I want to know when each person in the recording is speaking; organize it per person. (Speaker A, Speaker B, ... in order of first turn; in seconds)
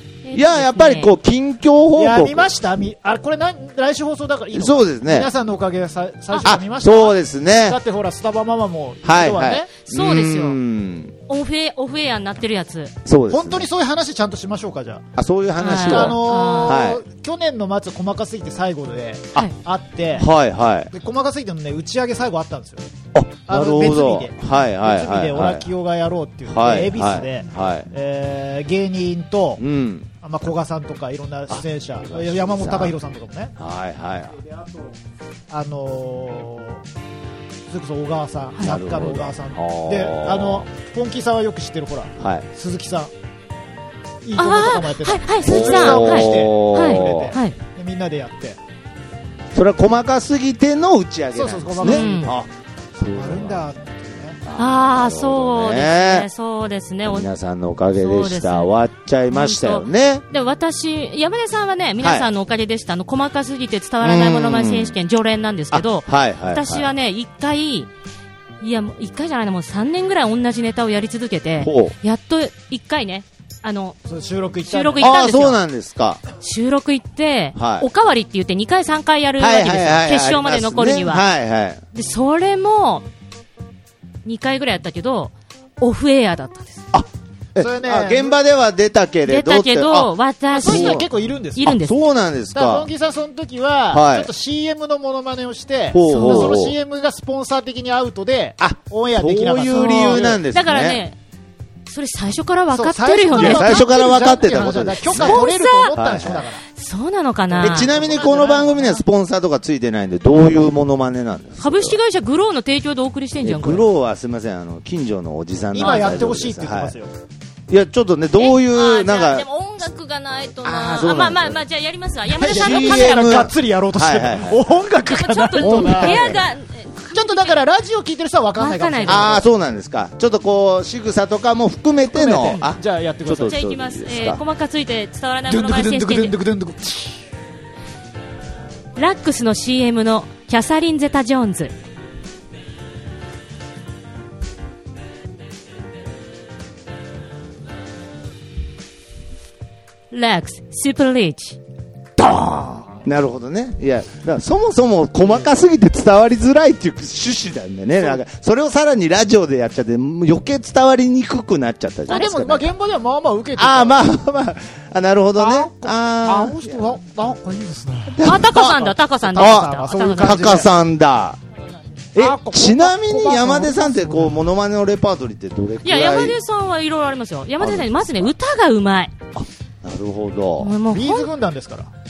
Speaker A: 0.2-1.1, 9.8-10.6, 11.3-12.9, 15.6-16.8, 44.4-47.6, 51.8-52.3, 54.6-57.3, 58.0-58.7, 59.3-67.9, 68.6-74.0, 74.7-75.6, 76.4-81.2, 81.9-83.1, 84.2-86.9, 89.2-91.0, 91.6-92.0, 96.0-96.6, 99.7-101.2, 101.9-105.9, 106.7-107.9, 111.6-113.8, 115.8-116.2, 118.4-123.4, 125.1-127.6, 128.6-129.3, 133.5-136.3, 139.0-141.7, 150.1-151.6, 168.2-170.7, 175.8-179.1, 180.6-181.3
Speaker B: 0.3-2.5, 4.5-5.3, 6.4-7.8, 9.0-11.2, 13.1-13.7, 15.2-17.0, 20.2-20.9, 23.1-25.7, 26.5-27.9, 29.6-30.1, 31.5-33.0, 33.6-34.4, 38.6-40.7, 42.2-42.5, 45.5-47.4, 49.5-53.7, 54.4-56.3, 57.0-60.2, 62.0-62.3, 64.0-65.0, 65.7-66.9, 71.6-71.9, 75.0-76.2, 77.5-77.9, 79.4-81.8, 86.9-90.1, 90.7-91.0, 91.6-92.9, 93.9-94.3, 95.9-96.8, 98.6-101.0, 103.3-106.5, 107.6-112.0, 113.4-117.0, 117.7-119.5, 120.6-121.6, 122.4-124.7, 125.6-126.4, 129.1-134.4, 153.0-162.7, 163.6-166.9, 168.2-171.4, 172.2-176.4, 177.6-178.3, 179.3-180.8
Speaker C: 1.9-9.7, 13.3-15.1, 15.8-20.3, 20.9-22.9, 23.5-29.6, 30.2-33.5, 35.5-36.8, 37.7-43.1, 44.2-48.6, 51.3-52.4, 53.1-54.4, 74.1-75.2, 87.6-88.4, 90.5-91.7, 92.5-100.4, 102.7-106.6, 107.5-109.0, 115.7-117.1, 122.4-126.4, 127.1-129.5, 132.1-133.6, 135.5-137.2, 152.2-153.0, 162.1-164.0, 165.4-170.7, 172.2-174.4, 180.9-181.9